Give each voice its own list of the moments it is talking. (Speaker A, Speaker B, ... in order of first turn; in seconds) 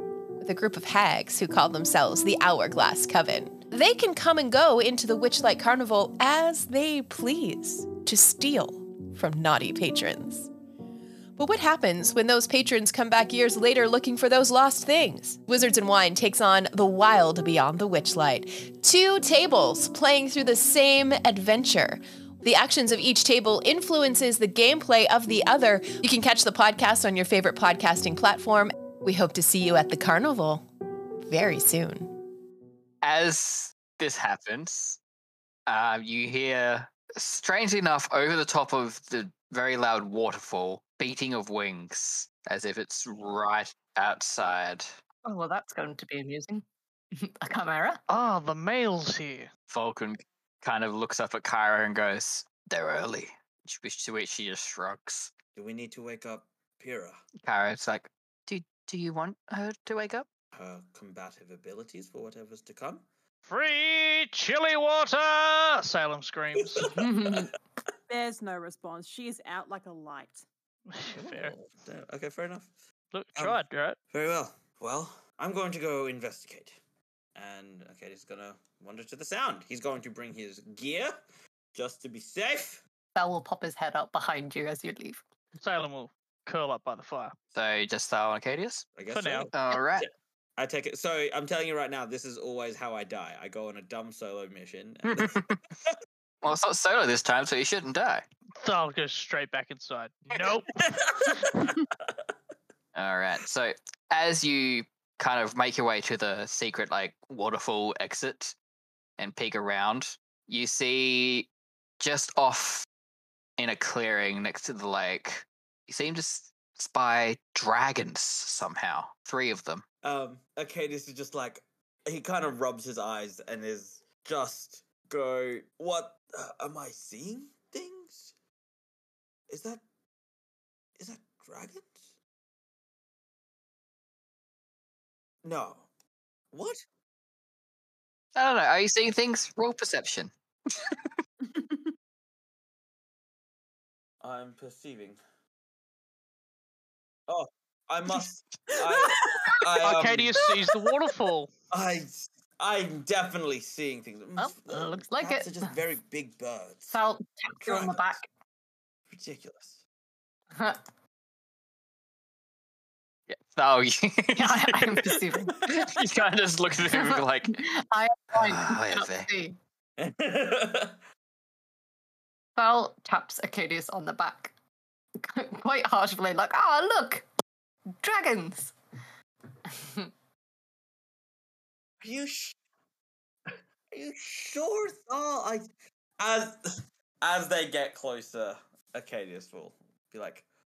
Speaker A: 0.4-10.5, 11.4-30.6, 31.2-32.1
Speaker B: 33.0-35.0, 35.7-44.9, 49.7-55.3, 57.4-60.3, 87.5-88.9, 89.5-90.1, 95.1-95.6, 96.4-98.2, 102.9-108.5, 109.2-112.9, 113.6-119.8, 138.3-141.1, 163.3-167.6, 168.4-169.3
Speaker C: 45.2-46.6, 47.2-48.0, 66.9-67.5, 83.1-85.2, 154.4-155.7, 156.9-158.3, 160.5-160.8, 164.4-165.9, 166.8-169.6, 172.6-174.5, 175.2-177.2, 178.0-178.7, 179.7-180.1
Speaker D: 48.1-49.5, 63.5-66.9, 70.9-71.5, 73.1-74.0, 85.6-87.3, 89.1-89.5, 98.6-101.1, 149.8-151.5
Speaker E: 55.5-57.2, 60.5-63.0, 66.8-67.5, 71.1-72.7, 74.1-76.8, 77.3-81.2, 81.7-82.8, 89.0-95.9, 100.8-102.0, 120.0-128.3, 129.5-129.8, 131.0-132.1, 135.4-135.9, 136.5-136.8, 144.2-145.2, 147.3-150.3, 151.7-156.9, 157.6-158.2, 159.1-159.8, 170.0-171.0, 182.0-182.6, 183.5-185.7, 186.2-190.4
Speaker F: 68.1-70.5, 141.5-141.7